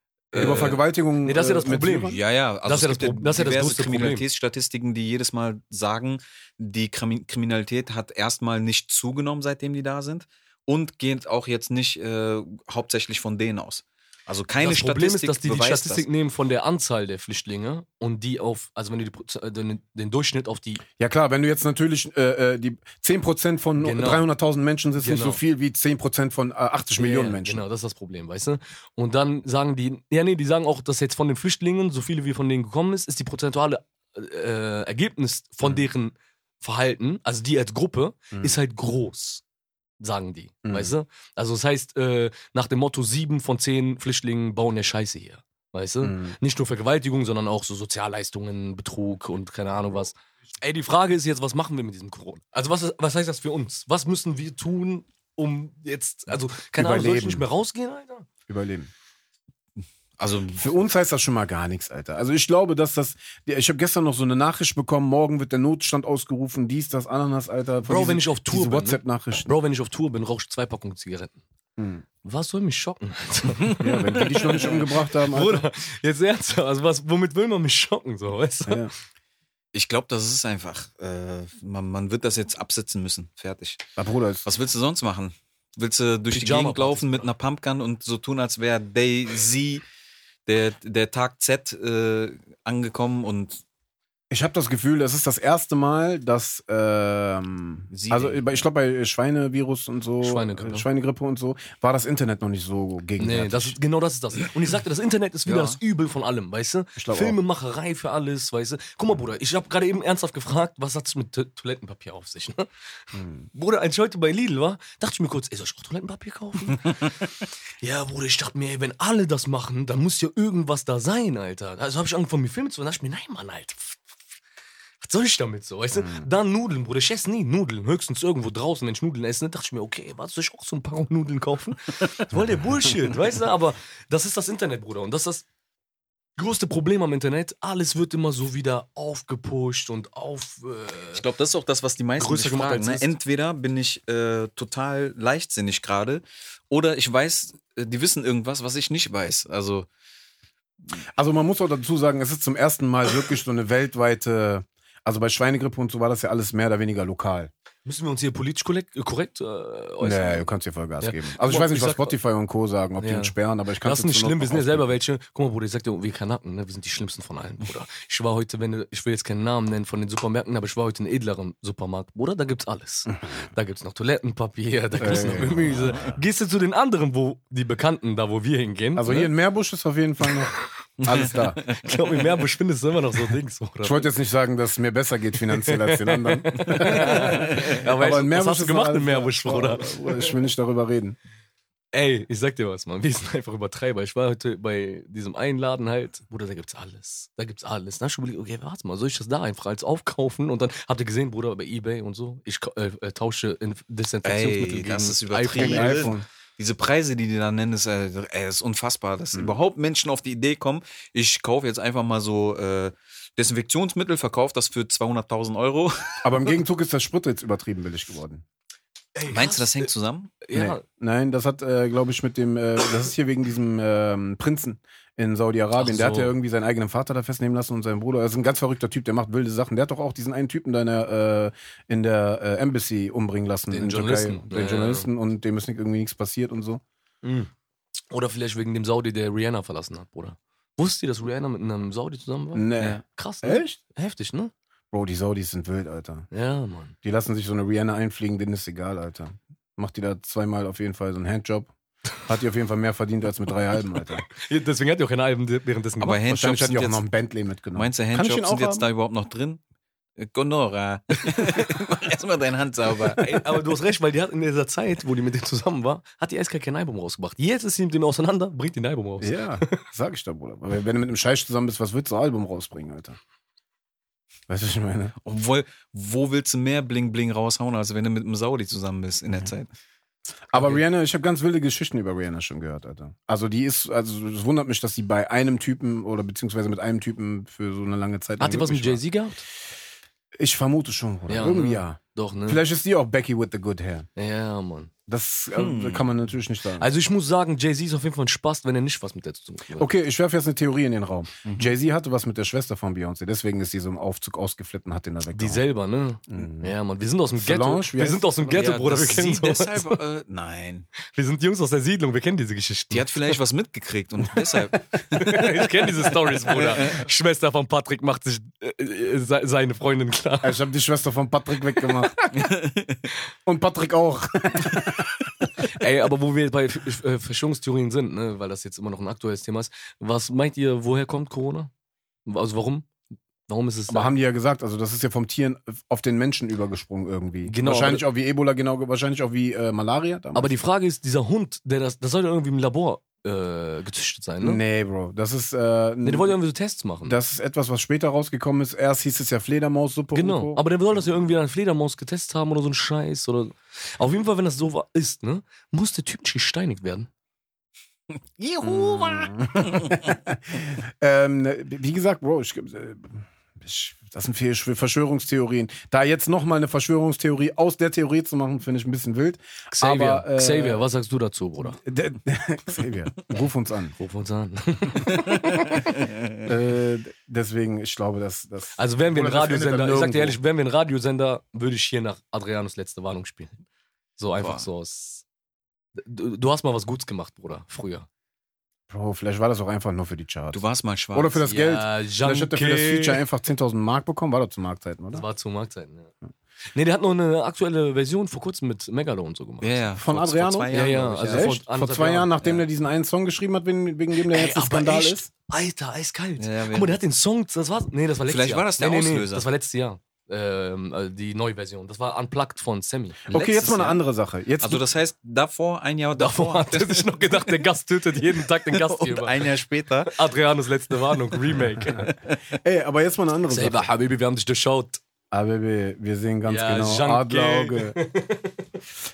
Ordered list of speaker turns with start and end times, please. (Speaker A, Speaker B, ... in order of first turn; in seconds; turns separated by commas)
Speaker A: 0.3-0.8, Speaker B: 0.3-2.2, Speaker C: 1.2-4.2, Speaker A: 2.1-16.1, Speaker C: 14.6-20.8, Speaker B: 21.0-27.6, Speaker C: 23.8-24.2, Speaker C: 25.0-25.4, Speaker C: 27.0-39.4, Speaker B: 38.3-38.6, Speaker C: 40.0-58.3, Speaker B: 40.6-40.9, Speaker B: 46.0-46.3, Speaker B: 56.8-57.5, Speaker B: 58.5-58.9, Speaker A: 60.2-60.6, Speaker B: 60.5-69.5, Speaker C: 67.8-71.4, Speaker B: 71.8-72.0, Speaker C: 72.2-78.9, Speaker B: 73.8-75.6, Speaker B: 78.7-78.9, Speaker A: 79.7-83.8, Speaker B: 84.0-84.5, Speaker A: 84.4-89.8, Speaker C: 86.3-87.3, Speaker A: 90.5-93.6, Speaker B: 94.3-103.8, Speaker A: 97.9-98.4, Speaker C: 100.2-100.8, Speaker C: 103.2-124.0, Speaker A: 105.5-105.8, Speaker B: 107.0-107.4, Speaker C: 125.0-135.4, Speaker B: 126.0-126.3, Speaker C: 136.4-141.2, Speaker A: 141.1-149.9, Speaker C: 142.2-143.1, Speaker B: 151.1-157.5, Speaker C: 157.8-160.5, Speaker B: 160.0-164.9, Speaker C: 161.0-162.2, Speaker C: 163.0-179.3, Speaker B: 173.1-173.3, Speaker B: 175.0-176.0, Speaker B: 178.9-181.6, Speaker A: 181.0-181.9, Speaker C: 181.7-184.1, Speaker B: 183.8-191.2, Speaker C: 185.5-190.3, Speaker C: 191.9-206.1, Speaker A: 204.2-216.3, Speaker B: 205.6-206.2, Speaker B: 216.2-218.4, Speaker C: 219.1-219.9, Speaker A: 219.2-220.4, Speaker C: 220.4-220.8, Speaker B: 220.5-236.8, Speaker C: 225.8-226.3, Speaker C: 233.7-235.1, Speaker C: 237.2-237.5, Speaker C: 238.1-244.5, Speaker B: 242.5-243.8, Speaker B: 244.9-246.3, Speaker C: 246.3-246.9, Speaker B: 247.0-251.7, Speaker B: 252.2-254.2, Speaker C: 254.3-256.2, Speaker A: 256.0-257.0, Speaker B: 256.3-258.9, Speaker A: 257.7-259.6, Speaker A: 260.2-263.6, Speaker C: 261.4-261.7, Speaker C: 263.1-269.8, Speaker B: 269.2-273.2, Speaker B: 274.5-275.1, Speaker A: 275.2-279.7, Speaker B: 280.5-289.0, Speaker C: 288.4-289.4, Speaker B: 290.4-294.1, Speaker C: 291.3-292.6, Speaker C: 294.1-294.9, Speaker B: 295.1-296.9, Speaker A: 295.5-296.1, Speaker C: 296.8-299.9, Speaker B: 299.7-305.6, Speaker A: 301.4-301.7, Speaker C: 305.3-310.0, Speaker B: 306.3-306.7, Speaker B: 307.4-308.6, Speaker A: 308.5-310.9, Speaker C: 311.0-313.4, Speaker A: 312.9-315.7, Speaker C: 315.1-320.6, Speaker A: 316.5-317.0, Speaker B: 320.4-322.2, Speaker A: 322.3-323.0, Speaker B: 323.4-325.2, Speaker C: 325.6-331.7, Speaker C: 332.2-332.9, Speaker C: 333.5-334.1, Speaker B: 333.9-340.6, Speaker C: 337.4-338.1, Speaker C: 340.3-344.6, Speaker B: 344.4-346.4, Speaker C: 346.0-347.2, Speaker B: 347.1-350.6, Speaker C: 350.1-357.1, Speaker A: 358.4-360.0, Speaker B: 358.6-370.8, Speaker C: 369.7-371.8, Speaker B: 371.8-373.9, Speaker C: 374.0-376.0, Speaker B: 376.4-380.4, Speaker C: 378.8-383.6, Speaker C: 384.2-385.2, Speaker A: 384.4-384.6, Speaker C: 385.9-388.1, Speaker B: 388.9-390.6, Speaker A: 390.5-391.4, Speaker B: 391.1-395.2, Speaker C: 391.5-393.2, Speaker C: 395.1-396.1, Speaker C: 396.7-399.8, Speaker A: 399.6-401.6, Speaker B: 400.0-405.3, Speaker C: 400.7-402.3, Speaker A: 402.4-402.6, Speaker C: 404.2-413.2, Speaker A: 406.4-407.0, Speaker A: 408.2-409.4, Speaker B: 413.3-414.8, Speaker A: 413.3-414.0, Speaker A: 414.6-417.6, Speaker C: 416.2-419.4, Speaker A: 418.3-420.1, Speaker C: 420.1-422.1, Speaker A: 421.9-422.4, Speaker B: 422.5-423.9, Speaker C: 423.5-425.0, Speaker B: 425.3-428.0, Speaker C: 426.4-428.7